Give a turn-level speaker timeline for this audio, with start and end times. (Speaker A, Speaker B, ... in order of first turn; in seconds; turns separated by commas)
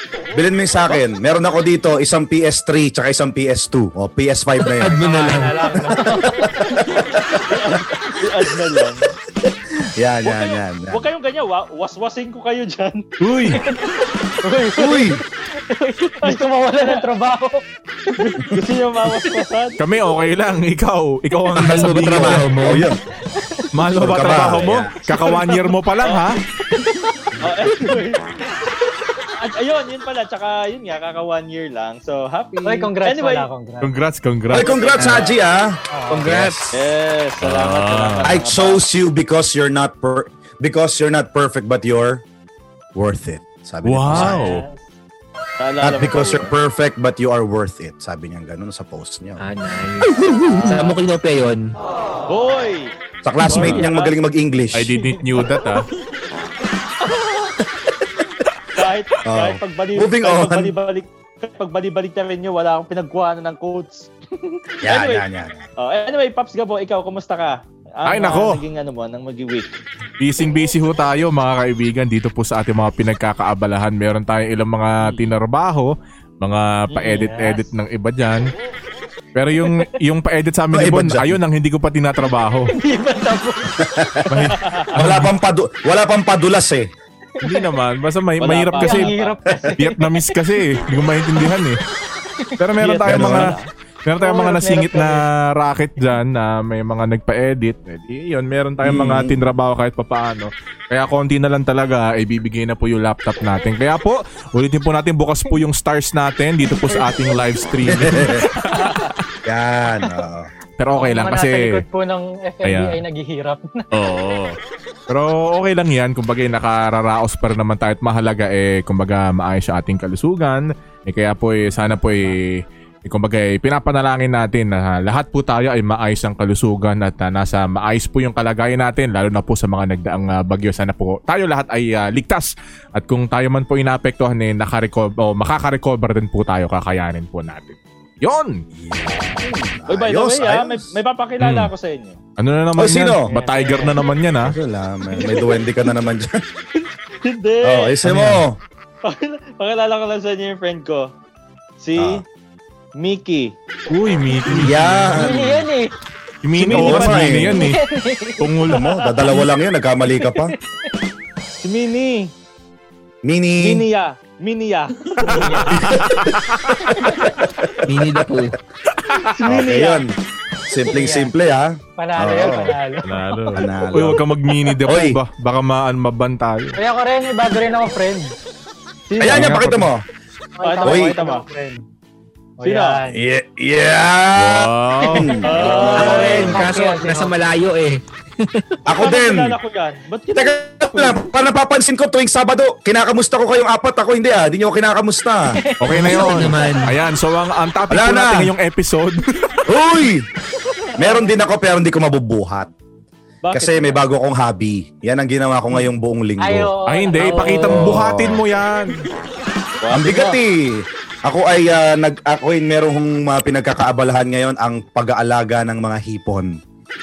Speaker A: 0.3-5.5, Speaker B: 4.7-6.3, Speaker C: 4.9-6.8, Speaker A: 6.6-7.8, Speaker D: 7.5-9.1, Speaker A: 9.8-11.0, Speaker D: 10.2-13.6, Speaker E: 13.2-13.6, Speaker C: 13.6-15.2, Speaker A: 14.8-15.2, Speaker C: 15.8-18.2, Speaker D: 15.8-17.0, Speaker D: 18.2-19.8, Speaker E: 19.8-22.7, Speaker B: 21.5-22.9, Speaker A: 22.0-23.0, Speaker C: 23.4-23.6, Speaker E: 23.7-26.4, Speaker A: 24.0-25.0, Speaker D: 25.2-25.4, Speaker D: 26.0-26.3, Speaker D: 27.4-28.4, Speaker D: 29.3-33.5, Speaker C: 32.6-33.9, Speaker E: 33.8-34.7, Speaker A: 34.5-36.8, Speaker D: 34.5-35.4, Speaker B: 35.0-35.3, Speaker C: 35.9-36.3, Speaker B: 36.1-36.7, Speaker D: 36.7-38.9, Speaker E: 37.4-38.3, Speaker A: 38.3-42.2, Speaker A: 43.0-44.4, Speaker E: 43.9-44.6, Speaker D: 44.1-44.6, Speaker C: 44.3-44.8, Speaker D: 45.6-46.5, Speaker A: 45.8-49.4, Speaker B: 49.4-51.7, Speaker A: 50.0-50.9, Speaker D: 52.3-52.9, Speaker A: 53.2-55.0, Speaker D: 53.5-54.2, Speaker E: 53.5-53.8, Speaker E: 54.7-55.9, Speaker D: 58.8-65.2, Speaker A: 59.2-60.7, Speaker A: 64.8-65.6, Speaker D: 65.8-69.8, Speaker E: 68.1-68.6, Speaker E: 70.2-78.5, Speaker D: 76.9-77.3, Speaker C: 77.1-77.7, Speaker E: 79.3-82.7, Speaker C: 79.6-79.9, Speaker A: 80.7-81.4, Speaker C: 82.7-84.2, Speaker A: 83.8-86.9, Speaker E: 84.3-85.3, Speaker D: 84.6-84.9, Speaker C: 87.4-87.7, Speaker E: 87.4-89.1, Speaker D: 88.4-89.6, Speaker C: 88.8-90.4, Speaker E: 89.8-91.8, Speaker E: 92.6-109.1, Speaker D: 92.8-93.7, Speaker A: 93.1-93.5, Speaker C: 94.2-95.2, Speaker A: 98.8-99.4, Speaker C: 106.9-107.4, Speaker A: 107.9-108.5, Speaker C: 108.7-109.1, Speaker A: 109.5-110.5, Speaker E: 110.8-111.8, Speaker C: 110.9-113.9, Speaker E: 112.6-113.0, Speaker E: 113.9-114.6, Speaker E: 115.1-138.6, Speaker A: 138.7-140.9, Speaker D: 139.0-142.2, Speaker E: 141.4-141.7, Speaker E: 142.4-144.6, Speaker A: 142.8-143.3, Speaker C: 143.2-144.0, Speaker A: 144.5-146.4, Speaker D: 145.2-145.6, Speaker D: 146.8-148.0, Speaker A: 147.6-148.6, Speaker E: 148.1-148.4, Speaker D: 149.0-151.1, Speaker D: 151.8-152.2, Speaker A: 152.0-152.2, Speaker D: 153.0-153.5, Speaker E: 153.9-155.3, Speaker A: 154.5-155.6, Speaker C: 155.1-155.9, Speaker E: 156.4-157.8, Speaker D: 156.6-157.4, Speaker A: 156.6-157.6, Speaker C: 157.5-158.5, Speaker E: 158.4-158.8, Speaker A: 158.7-160.5, Speaker D: 158.8-159.4, Speaker D: 161.6-162.3, Speaker A: 163.2-163.8, Speaker D: 163.6-165.9, Speaker C: 165.2-166.0, Speaker E: 165.4-166.9, Speaker A: 165.8-166.2, Speaker C: 166.8-167.4, Speaker B: 167.8-168.6, Speaker E: 169.0-169.4, Speaker D: 169.3-170.1, Speaker A: 169.4-170.1, Speaker A: 170.7-172.8, Speaker C: 170.9-171.3, Speaker C: 172.0-173.4, Speaker E: 173.0-176.8, Speaker A: 173.5-174.2, Speaker A: 174.9-175.2, Speaker C: 176.8-178.3, Speaker D: 179.1-179.6, Speaker A: 179.2-180.0, Speaker E: 179.3-179.9, Speaker C: 180.6-181.8, Speaker D: 180.6-181.4, Speaker A: 180.8-181.2, Speaker C: 182.6-183.2, Speaker D: 182.6-183.0, Speaker A: 183.1-186.7, Speaker E: 184.4-185.5, Speaker C: 185.4-187.3, Speaker D: 185.4-186.6, Speaker B: 185.9-188.8, Speaker A: 188.9-189.6, Speaker D: 188.9-191.2, Speaker A: 190.3-195.5, Speaker C: 195.7-196.9, Speaker E: 195.8-199.6, Speaker B: 195.9-197.0, Speaker A: 197.9-198.5, Speaker A: 199.7-200.2, Speaker D: 200.9-201.2, Speaker A: 201.0-202.7, Speaker D: 203.4-204.0, Speaker A: 203.5-206.7, Speaker C: 206.4-207.8, Speaker E: 206.9-209.0, Speaker D: 207.2-207.9, Speaker A: 207.7-208.4, Speaker D: 209.8-210.4, Speaker A: 209.9-216.6